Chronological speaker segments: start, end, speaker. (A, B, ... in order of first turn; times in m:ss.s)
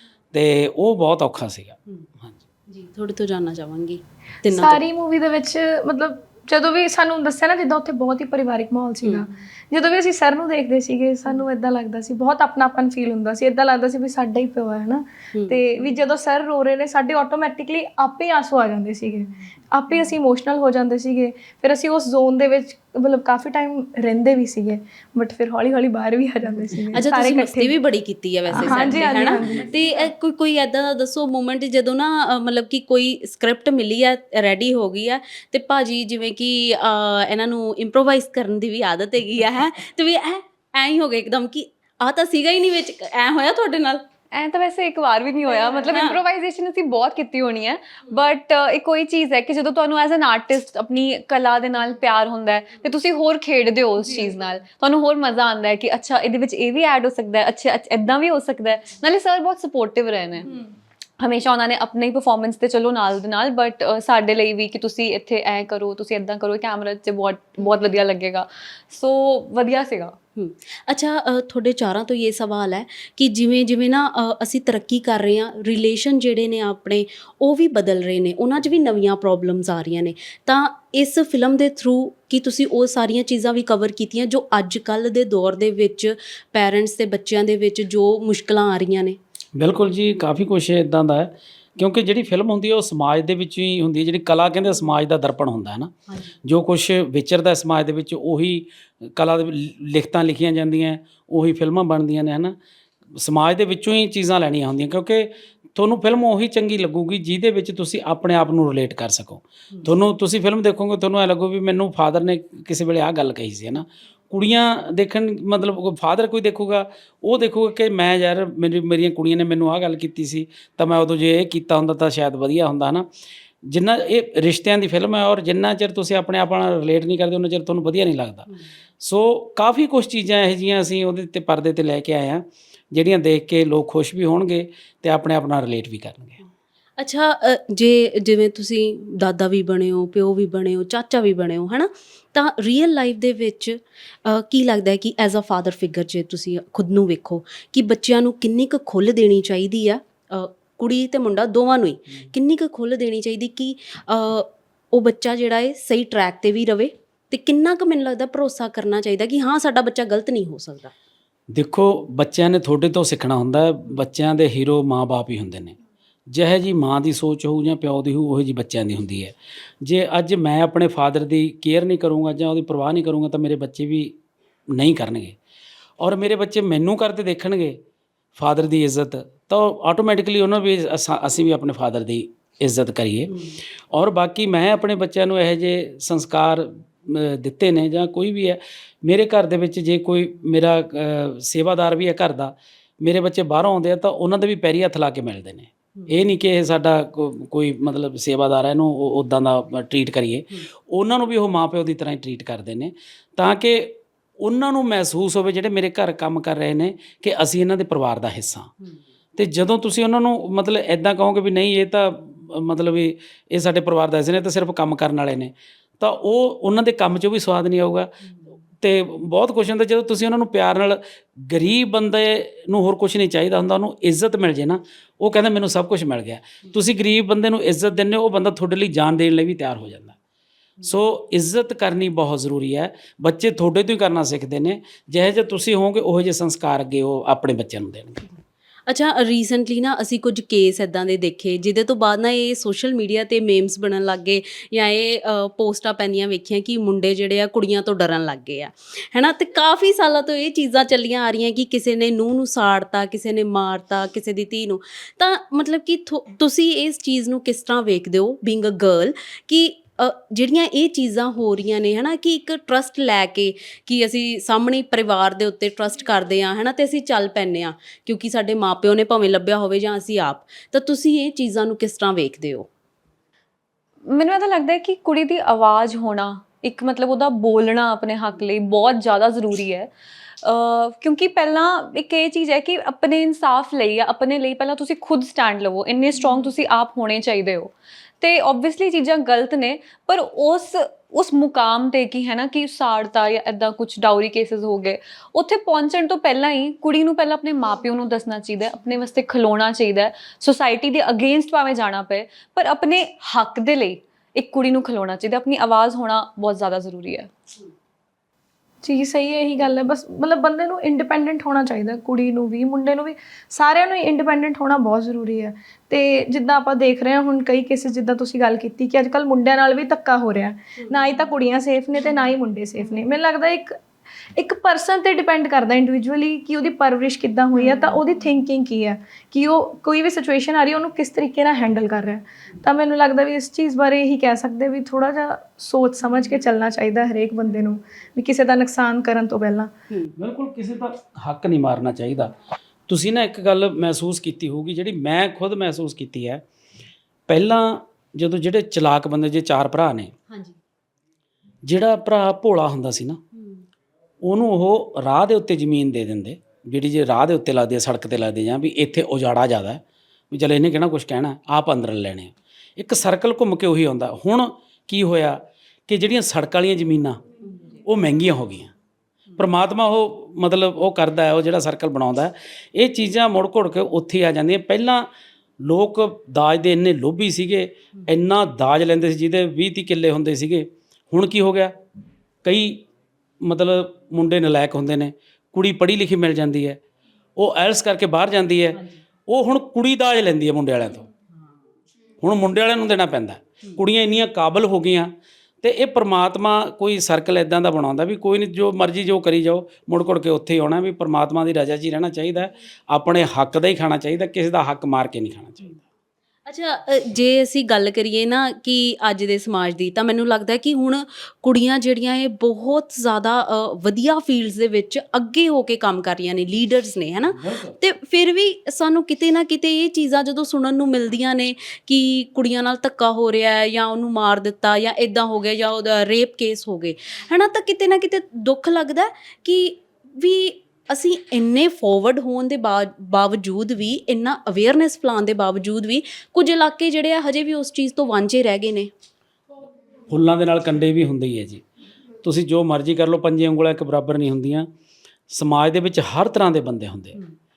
0:00.3-0:02.3 A
0:02.7-0:04.8 B
0:04.5-0:27.7 C
0:09.0-0:09.3 B
0:15.3-0:15.6 B
0:26.9-0:44.0 B
0:28.5-0:30.0 C
0:44.3-1:00.5 D
0:45.8-0:46.2 B
1:01.2-1:10.2 D
1:10.4-1:29.2 B
1:29.6-1:35.9 A
1:36.4-1:42.6 A
1:43.2-2:03.0 A
2:03.6-2:08.5 A
2:09.0-2:16.4 A
2:17.0-2:40.9 B
2:41.5-2:45.8 A
2:46.3-2:54.2 A
2:54.7-2:55.4 A
2:56.0-2:57.8 A
2:58.4-3:03.4 A
3:03.3-3:03.6 B
3:03.9-3:28.7 A
3:16.0-3:16.3 B
3:29.4-3:38.1 A
3:38.8-3:50.1 A
3:50.9-3:58.2 A
3:58.9-4:32.7 B
4:34.1-4:39.9 D
4:40.4-5:07.3 D
5:08.8-5:23.8 C
5:24.4-5:39.7 C
5:27.6-5:27.9 B
5:40.2-5:42.3 A
5:42.9-5:46.4 A
5:47.3-5:50.1 A
5:51.6-5:53.2 A
5:53.4-5:53.6 B
5:54.2-6:07.2 A
6:07.4-6:07.8 B
6:07.8-6:08.7 A
6:09.4-6:15.1 A
6:15.6-6:21.8 A
6:22.4-6:22.8 A
6:23.4-6:26.8 A
6:27.4-6:31.0 A
6:28.7-6:29.0 B
6:32.2-6:45.8 A
6:46.5-7:18.9 B
6:57.3-6:57.8 A
7:20.1-7:21.6 A
7:22.2-7:24.7 A
7:25.3-7:27.2 A